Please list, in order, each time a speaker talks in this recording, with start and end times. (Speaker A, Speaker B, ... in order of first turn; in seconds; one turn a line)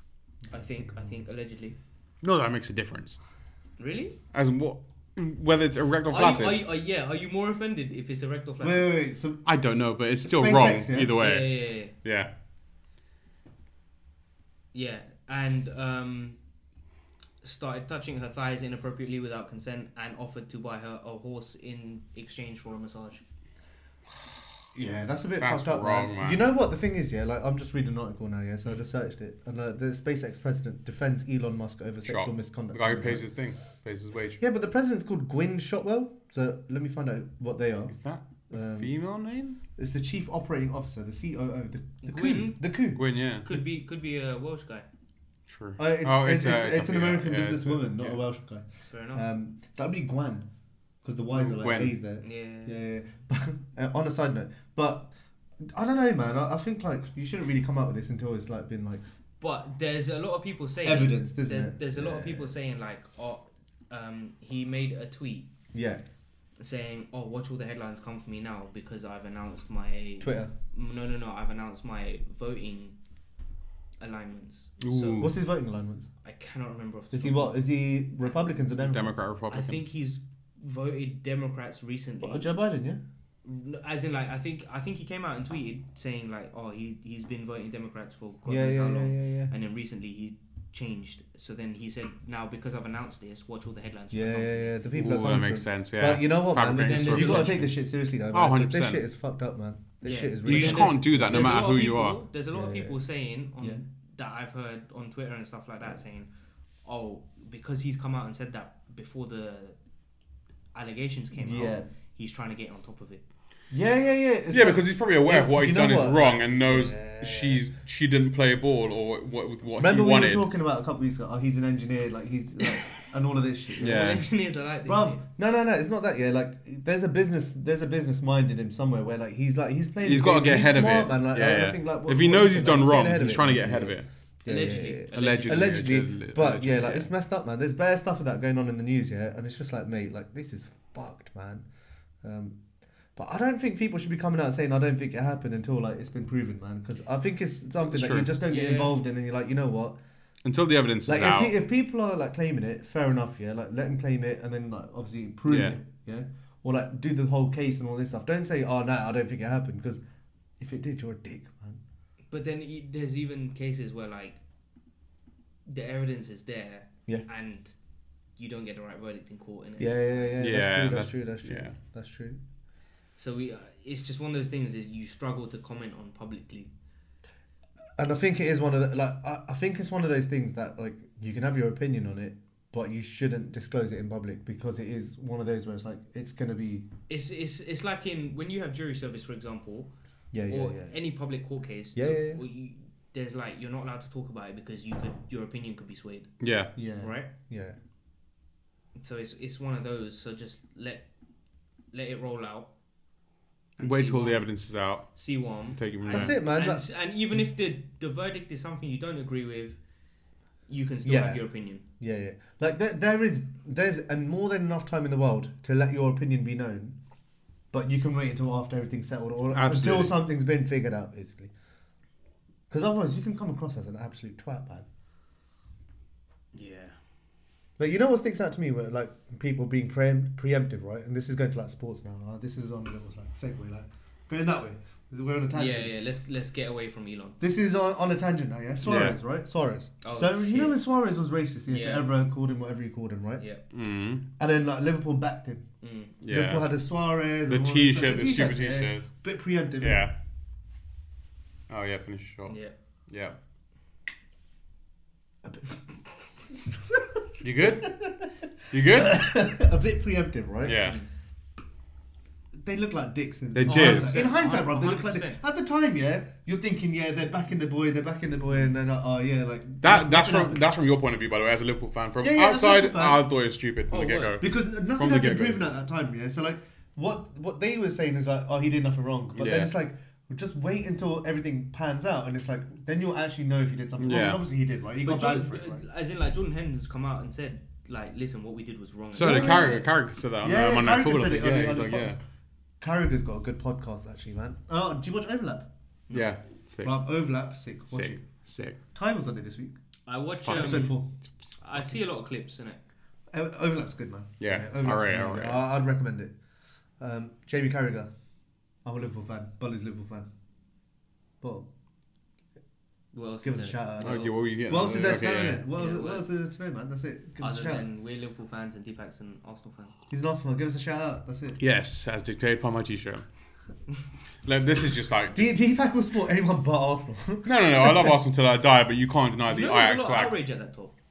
Speaker A: 0.5-1.1
Speaker B: 0.5-1.8
Speaker C: 2.2-3.2
Speaker B: 3.8-4.2
Speaker C: 4.3-6.6
Speaker B: 6.1-8.9
Speaker A: 8.6-9.4
Speaker C: 9.4-12.3
Speaker A: 10.2-11.2
Speaker B: 11.2-11.9
Speaker B: 14.7-16.4
Speaker B: 17.4-23.2
Speaker A: 24.7-33.3
Speaker C: 25.4-26.4
Speaker C: 32.0-34.4
Speaker A: 34.4-37.9
Speaker C: 37.9-39.6
Speaker A: 38.5-38.9
Speaker A: 39.8-43.0
Speaker B: 42.0-42.6
Speaker C: 43.0-43.5
Speaker B: 43.4-44.9
Speaker C: 45.5-48.2
Speaker A: 45.8-50.5
Speaker B: 48.9-49.3
Speaker A: 51.0-55.1
Speaker C: 51.4-52.0
Speaker B: 52.2-52.8
Speaker A: 55.6-59.0
Speaker B: 59.4-65.5
Speaker A: 60.8-62.5
Speaker A: 65.7-66.0
Speaker B: 66.6-73.0
Speaker A: 70.2-70.5
Speaker B: 74.0-75.3
Speaker C: 74.8-75.3
Speaker A: 75.2-76.1
Speaker B: 76.2-77.6
Speaker A: 77.1-79.2
Speaker C: 78.8-79.8
Speaker B: 79.5-82.5
Speaker A: 82.2-83.0
Speaker B: 83.4-94.7
Speaker A: 88.5-89.5
Speaker A: 94.1-101.6
Speaker C: 94.9-99.0
Speaker B: 96.8-97.6
Speaker B: 100.0-106.3
Speaker C: 100.5-102.2
Speaker A: 102.5-103.0
Speaker B: 106.8-109.8
Speaker B: 110.7-113.2
Speaker A: 111.3-111.9
Speaker A: 113.7-117.7
Speaker C: 114.5-120.5
Speaker A: 119.8-124.1
Speaker B: 123.8-125.2
Speaker C: 123.8-124.2
Speaker A: 124.8-141.7
Speaker C: 130.0-134.1
Speaker B: 134.5-135.8
Speaker C: 135.1-137.1
Speaker A: 142.2-142.6
Speaker A: 143.2-150.0
Speaker C: 147.8-148.3
Speaker B: 148.5-149.0
Speaker C: 150.4-151.6
Speaker A: 151.1-160.0
Speaker C: 155.5-155.8
Speaker A: 160.6-161.8
Speaker B: 162.3-164.4
Speaker B: 165.7-167.7
Speaker B: 168.4-170.3
Speaker A: 169.8-172.4
Speaker C: 170.4-171.8
Speaker B: 173.2-176.7
Speaker A: 178.0-186.9
Speaker B: 187.1-189.9
Speaker A: 190.3-191.0
Speaker B: 190.5-196.3
Speaker A: 191.9-192.4
Speaker C: 196.4-196.7
Speaker A: 196.8-197.8
Speaker B: 197.0-197.3
Speaker B: 199.0-201.1
Speaker B: 201.9-202.7
Speaker B: 203.8-204.5
Speaker C: 203.8-205.2
Speaker B: 205.1-209.8
Speaker C: 205.7-206.4
Speaker A: 206.1-206.9
Speaker B: 210.7-211.8
Speaker A: 211.0-211.4
Speaker A: 212.0-217.0
Speaker A: 217.7-221.5
Speaker C: 219.5-220.2
Speaker A: 222.7-224.9
Speaker B: 226.5-227.0
Speaker A: 227.8-235.9
Speaker B: 235.5-237.4
Speaker A: 237.4-243.4
Speaker C: 238.8-239.2
Speaker B: 240.0-240.8
Speaker B: 241.7-242.1
Speaker C: 243.7-244.2
Speaker A: 244.4-245.6
Speaker B: 245.8-246.2
Speaker C: 246.2-246.7
Speaker A: 246.3-250.1
Speaker C: 247.5-249.1
Speaker C: 249.8-250.1
Speaker C: 251.7-252.6
Speaker B: 252.5-252.7
Speaker C: 253.1-253.4
Speaker A: 255.4-255.8
Speaker C: 257.4-258.0
Speaker A: 257.8-260.9
Speaker C: 258.7-259.3
Speaker C: 260.6-261.0
Speaker A: 262.6-270.6
Speaker C: 263.6-264.2
Speaker B: 263.7-265.4
Speaker C: 269.8-275.6
Speaker A: 272.2-273.2
Speaker B: 273.9-274.4
Speaker A: 274.4-285.8
Speaker C: 279.4-279.7
Speaker C: 284.0-284.4
Speaker B: 285.0-289.9
Speaker C: 289.1-292.2
Speaker A: 289.2-289.8
Speaker A: 290.4-292.2
Speaker A: 292.8-295.7
Speaker C: 296.1-296.9
Speaker A: 296.8-298.2
Speaker C: 297.9-298.8
Speaker A: 298.9-299.8
Speaker B: 300.1-301.0
Speaker C: 300.5-301.0
Speaker A: 300.5-301.1
Speaker B: 301.6-302.8
Speaker A: 303.3-306.4
Speaker C: 304.4-305.6
Speaker A: 307.0-308.1
Speaker A: 308.9-310.3
Speaker A: 311.4-311.7
Speaker B: 313.1-314.3
Speaker A: 313.4-317.9
Speaker C: 314.0-315.6
Speaker B: 315.7-316.2
Speaker B: 317.4-319.9
Speaker A: 320.1-321.6
Speaker C: 321.6-323.2
Speaker C: 324.4-325.5
Speaker A: 325.4-328.2
Speaker C: 327.4-330.4
Speaker B: 329.5-330.9